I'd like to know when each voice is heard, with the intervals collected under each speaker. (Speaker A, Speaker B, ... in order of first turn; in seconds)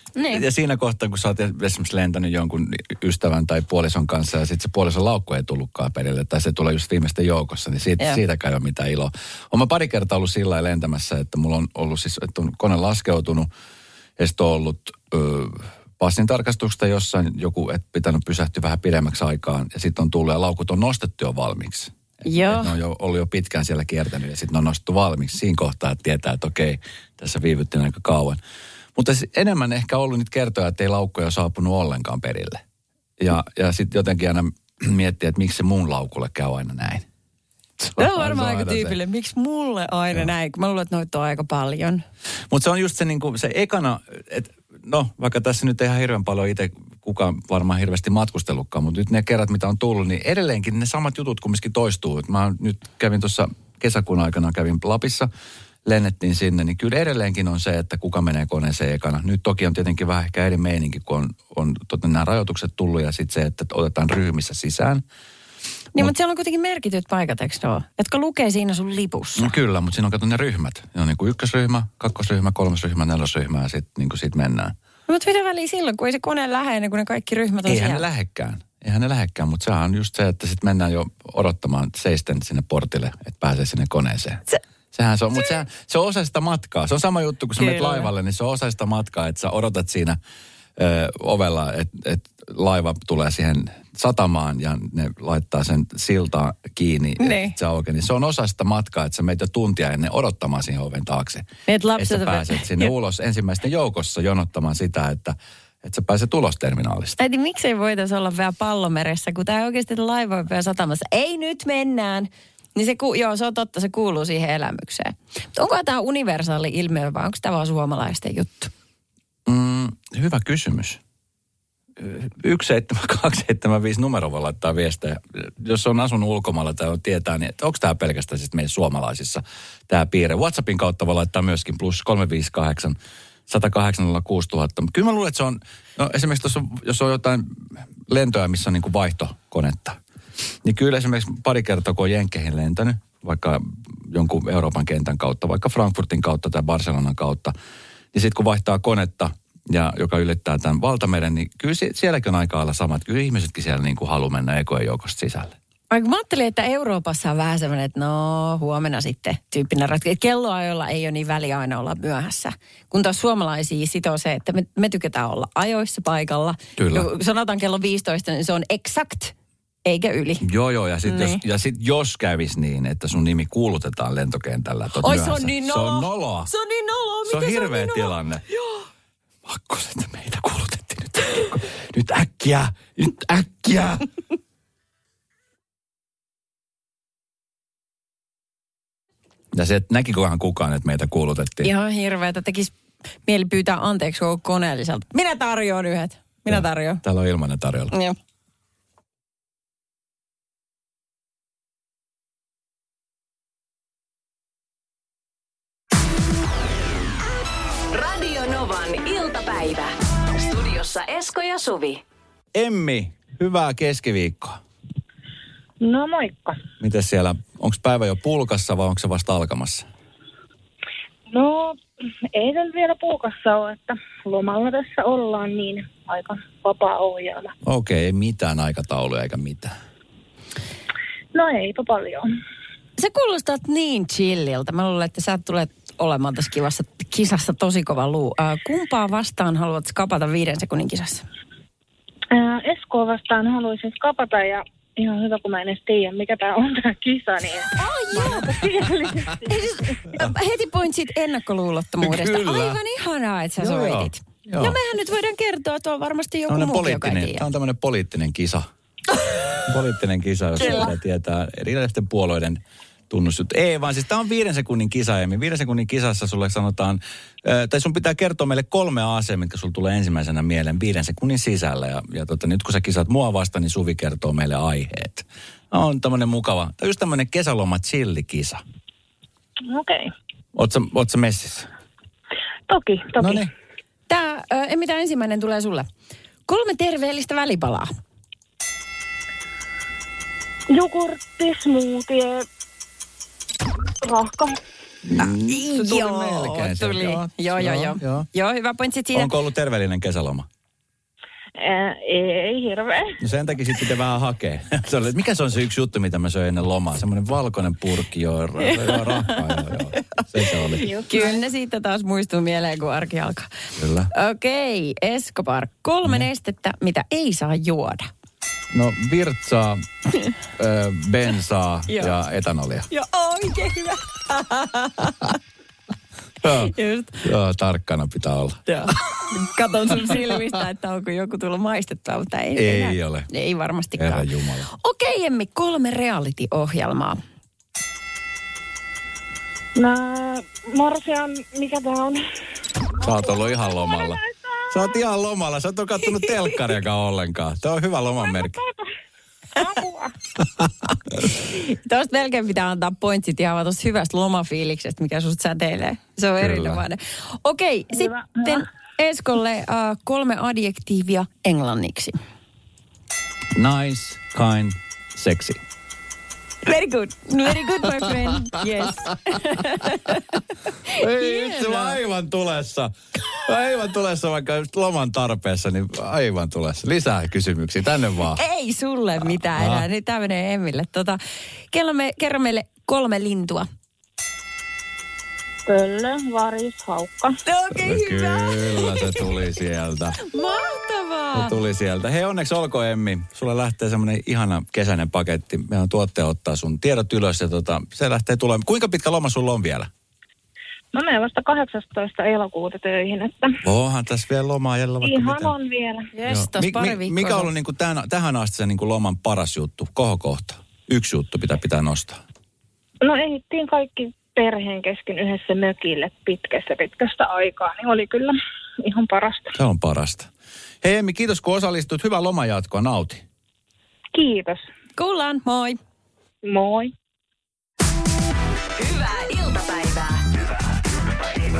Speaker A: 0.1-0.4, 22.2-22.7, 38.0-42.0, 65.9-69.5, 75.1-78.0, 87.6-88.1, 97.2-97.6, 101.7-102.9, 107.2-118.7, 155.9-169.3, 169.8-170.4, 171.0-171.4, 175.0-178.1, 191.6-192.7, 193.2-197.0, 233.0-241.2, 247.8-248.8, 249.4-257.4, 260.6-260.9, 284.1-285.9, 286.5-287.9, 295.2-299.3, 308.6-310.2, 311.0-313.5, 314.1-318.1, 321.9-322.2, 322.9-325.4, 326.5-327.2, 328.7-337.2, 351.3-362.1, 366.6-372.0, 378.3-381.2, 381.7-383.7, 387.4-389.3, 390.2-391.5, 406.1-407.5, 425.0-425.8
Speaker B: 0.3-13.5, 14.2-28.4, 28.9-32.6, 33.2-37.0, 37.8-39.0, 42.5-55.3, 55.8-65.0, 69.4-74.7, 77.7-90.2, 90.8-107.2, 119.5-121.0, 122.0-140.0, 140.6-147.5, 148.1-155.5, 166.8-167.1, 170.4-176.5, 177.2-178.4, 179.4-184.1, 189.5-191.7, 196.5-197.9, 212.5-214.6, 216.8-219.9, 227.6-229.7, 252.0-252.8, 253.6-254.8, 256.5-258.7, 259.6-278.6, 280.5-281.7, 283.2-283.5, 295.1-298.3, 299.1-300.5, 303.2-310.9, 313.8-314.1, 318.7-319.9, 320.5-322.9, 326.4-328.6, 329.9-330.5, 332.6-333.3, 333.9-334.7, 343.0-348.6, 350.4-351.3, 356.4-356.8, 363.5-365.6, 367.5-378.4, 379.2-379.9, 387.7-390.2, 391.3-399.9, 403.6-405.5, 406.3-412.2, 419.5-420.3, 420.8-423.2
Speaker C: 207.9-212.0, 428.8-430.3
Speaker D: 215.8-216.6, 221.3-221.8, 222.3-227.5, 231.3-232.3, 242.3-249.5, 279.6-280.1, 282.7-283.5, 290.7-292.4, 294.0-294.6, 301.6-303.2, 310.8-311.4, 339.8-342.2, 343.0-344.8, 348.2-348.9, 349.6-350.1, 357.9-358.6, 385.7-387.4, 400.9-403.6, 405.0-406.1, 413.0-419.5, 424.1-424.7, 426.4-426.9